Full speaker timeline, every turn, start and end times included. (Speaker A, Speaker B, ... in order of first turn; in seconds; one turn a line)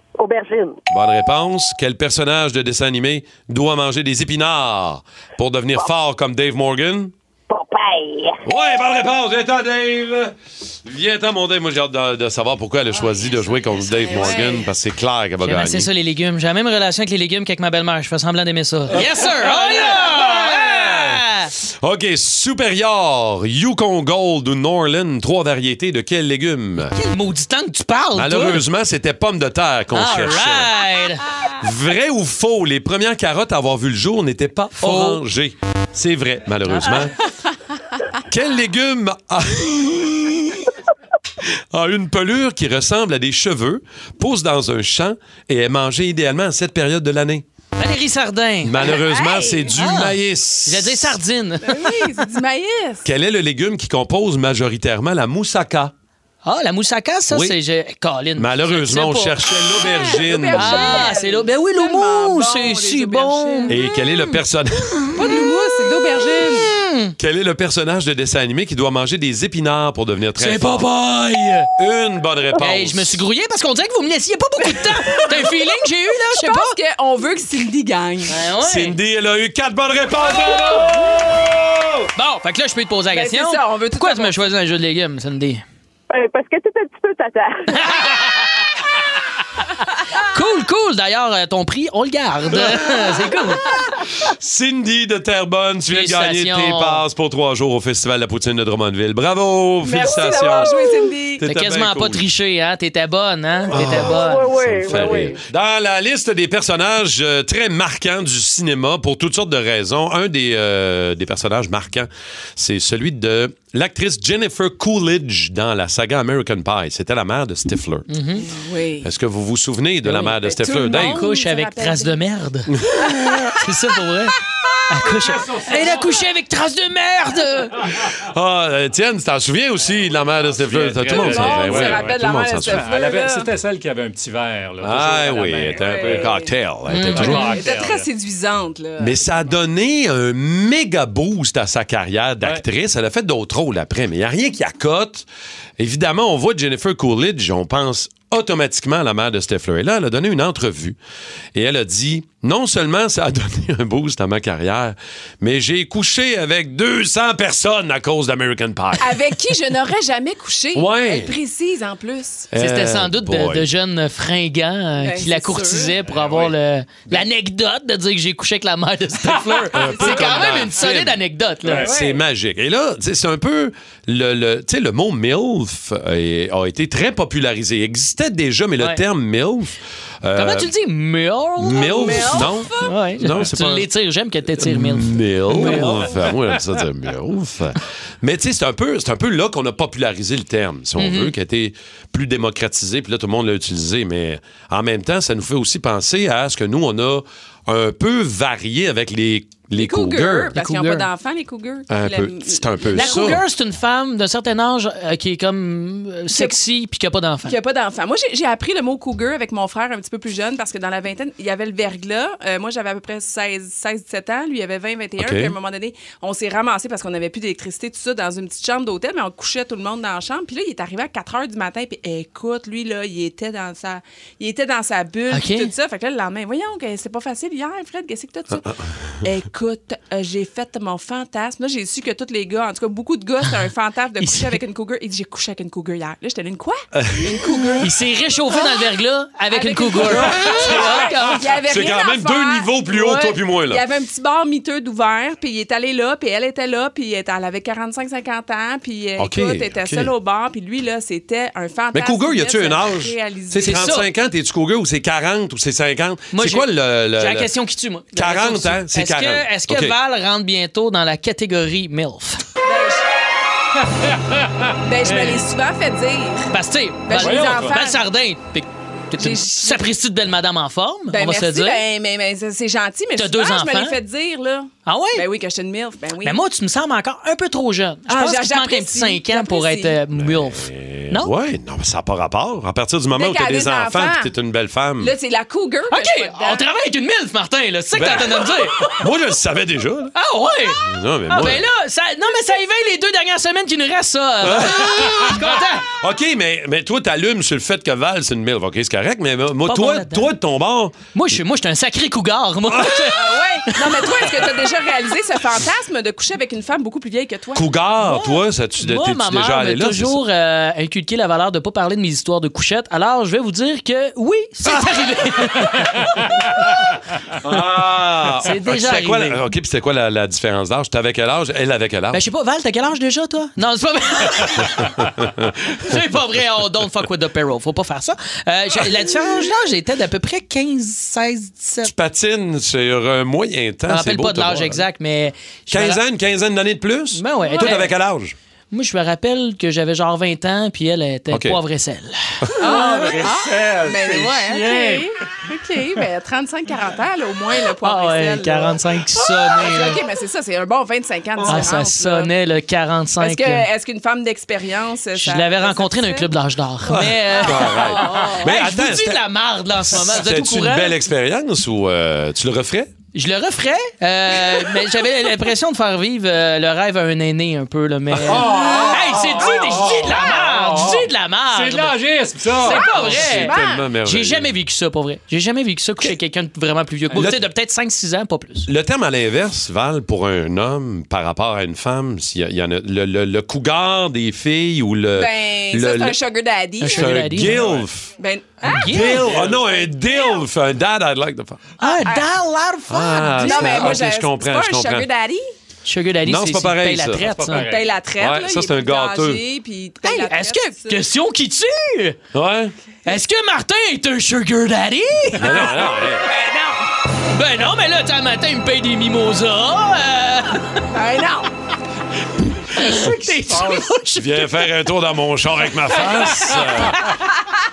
Speaker A: 0.2-0.8
Speaker B: 0.9-7.1
Speaker A: 7.5-8.4
Speaker B: 8.4-10.3
Speaker B: 10.8-15.9
Speaker C: 13.9-14.7
Speaker D: 15.4-21.5
Speaker B: 18.9-21.2
Speaker B: 21.8-26.9
Speaker D: 26.9-28.6
Speaker B: 28.1-30.7
Speaker D: 29.9-31.2
Speaker B: 31.6-37.1
Speaker D: 34.8-35.2
Speaker D: 36.7-37.0
Speaker B: 38.3-40.7
Speaker B: 41.7-47.4
Speaker D: 47.8-48.9
Speaker B: 48.6-51.2
Speaker C: 48.9-49.7
Speaker D: 49.7-50.1
Speaker D: 50.6-51.9
Speaker C: 51.6-53.1
Speaker B: 53.0-55.9
Speaker D: 56.4-59.4
Speaker B: 57.3-57.5
Speaker B: 58.4-61.1
Speaker C: 59.8-63.8
Speaker D: 60.5-64.3
Speaker B: 63.7-65.1
Speaker C: 65.1-66.7
Speaker D: 66.6-67.1
Speaker B: 67.2-70.8
Speaker D: 70.4-71.7
Speaker B: 71.8-73.2
Speaker D: 72.6-76.7
Speaker C: 75.1-75.5
Speaker C: 76.3-78.3
Speaker D: 78.3-79.0
Speaker B: 78.6-82.1
Speaker D: 82.1-85.6
Speaker C: 83.1-84.4
Speaker A: 86.1-87.8
Speaker D: 87.7-88.5
Speaker D: 90.2-93.7
Speaker B: 94.2-100.7
Speaker D: 95.9-97.0
Speaker C: 99.8-101.4
Speaker A: 100.1-100.9
Speaker B: 101.4-102.2
Speaker D: 101.4-104.5
Speaker B: 103.7-118.1
Speaker A: 104.0-105.4
Speaker D: 118.1-118.4
Speaker C: 118.4-119.1
Speaker B: 119.0-121.2
Speaker D: 120.1-120.3
Speaker C: 120.2-122.2
Speaker D: 120.9-122.7
Speaker D: 123.5-124.3
Speaker D: 124.9-127.9
Speaker E: 125.1-126.1
Speaker B: 128.1-132.9
Speaker E: 130.6-136.3
Speaker C: 131.1-133.5
Speaker B: 134.8-137.6
Speaker C: 135.7-136.5
Speaker D: 136.9-137.5
Speaker E: 137.1-138.1
Speaker C: 137.3-139.2
Speaker B: 139.0-145.2
Speaker B: 145.8-151.0
Speaker B: 151.5-159.2
Speaker C: 159.0-162.5
Speaker B: 160.7-161.3
Speaker B: 162.5-163.7
Speaker D: 162.6-171.9
Speaker C: 165.0-165.9
Speaker E: 166.1-166.5
Speaker B: 169.7-171.2
Speaker E: 171.7-171.9
Speaker B: 171.8-180.7
Speaker D: 180.3-186.1
Speaker B: 181.6-183.9
Speaker C: 181.8-182.9
Speaker B: 184.6-200.6
Speaker D: 191.0-191.3
Speaker C: 199.7-203.3
Speaker D: 200.5-201.1
Speaker B: 201.9-203.4
Speaker D: 202.9-207.5
Speaker C: 206.3-206.6
Speaker C: 207.4-228.7
Speaker B: 215.2-215.5
Speaker D: 225.3-225.7
Speaker C: 229.2-237.9
Speaker D: 234.2-234.6
Speaker B: 236.9-237.3
Speaker D: 237.8-241.3
Speaker C: 239.5-253.9
Speaker B: 240.4-241.1
Speaker B: 241.6-243.8
Speaker B: 249.2-250.1
Speaker B: 251.9-257.5
Speaker D: 253.6-254.1
Speaker D: 256.3-262.4
Speaker B: 258.1-259.9
Speaker C: 262.6-263.0
Speaker E: 263.9-264.7
Speaker C: 264.8-266.5
Speaker D: 266.5-271.8
Speaker C: 267.1-268.0
Speaker E: 267.1-267.8
Speaker C: 269.2-269.9
Speaker C: 271.1-276.4
Speaker D: 273.2-274.0
Speaker D: 274.9-275.2
Speaker D: 276.2-281.3
Speaker C: 278.1-280.0
Speaker B: 280.2-285.1
Speaker C: 283.1-284.3
Speaker C: 285.0-286.7
Speaker D: 285.9-289.0
Speaker B: 287.9-290.1
Speaker D: 290.1-295.9
Speaker B: 290.8-291.6
Speaker B: 294.4-300.9
Speaker D: 299.7-300.3
Speaker D: 301.1-304.2
Speaker C: 303.1-307.6
Speaker B: 307.5-310.2
Speaker D: 308.0-316.2
Speaker B: 317.4-322.2
Speaker D: 318.4-319.4
Speaker D: 322.1-324.9
Speaker B: 325.2-325.5
Speaker D: 325.8-331.9
Speaker B: 331.8-334.8
Speaker D: 333.9-336.0
Speaker B: 335.7-338.3
Speaker D: 337.1-337.9
Speaker C: 337.4-337.8
Speaker D: 338.7-342.2
Speaker B: 341.3-341.6
Speaker C: 342.6-348.8
Speaker E: 342.6-345.1
Speaker D: 347.8-350.0
Speaker C: 349.6-352.3
Speaker D: 351.4-353.7
Speaker C: 353.2-356.3
Speaker D: 355.2-360.9
Speaker B: 356.9-359.2
Speaker C: 357.4-358.5
Speaker B: 359.9-362.9
Speaker D: 363.1-372.0
Speaker E: 368.2-373.4
Speaker D: 372.6-373.5
Speaker C: 372.6-373.8
Speaker B: 373.0-374.5
Speaker D: 374.0-378.7
Speaker B: 377.1-377.4
Speaker B: 378.6-386.2
Speaker C: 385.1-387.4
Speaker D: 386.8-387.6
Speaker B: 386.9-388.1
Speaker E: 387.6-387.8
Speaker C: 388.2-389.1
Speaker D: 388.6-389.3
Speaker B: 388.8-391.6
Speaker E: 389.2-389.6
Speaker D: 391.8-394.0
Speaker C: 391.8-392.2
Speaker B: 392.9-395.1
Speaker C: 393.4-395.5
Speaker D: 395.9-397.7
Speaker B: 396.2-397.4
Speaker E: 397.4-397.9
Speaker C: 397.6-401.0
Speaker B: 398.2-399.4
Speaker D: 400.0-402.2
Speaker B: 402.3-402.7
Speaker D: 403.1-405.5
Speaker B: 405.4-406.2
Speaker C: 406.2-406.8
Speaker D: 407.3-410.8
Speaker C: 410.9-411.5
Speaker D: 412.8-414.6
Speaker E: 413.5-413.9
Speaker B: 414.2-416.9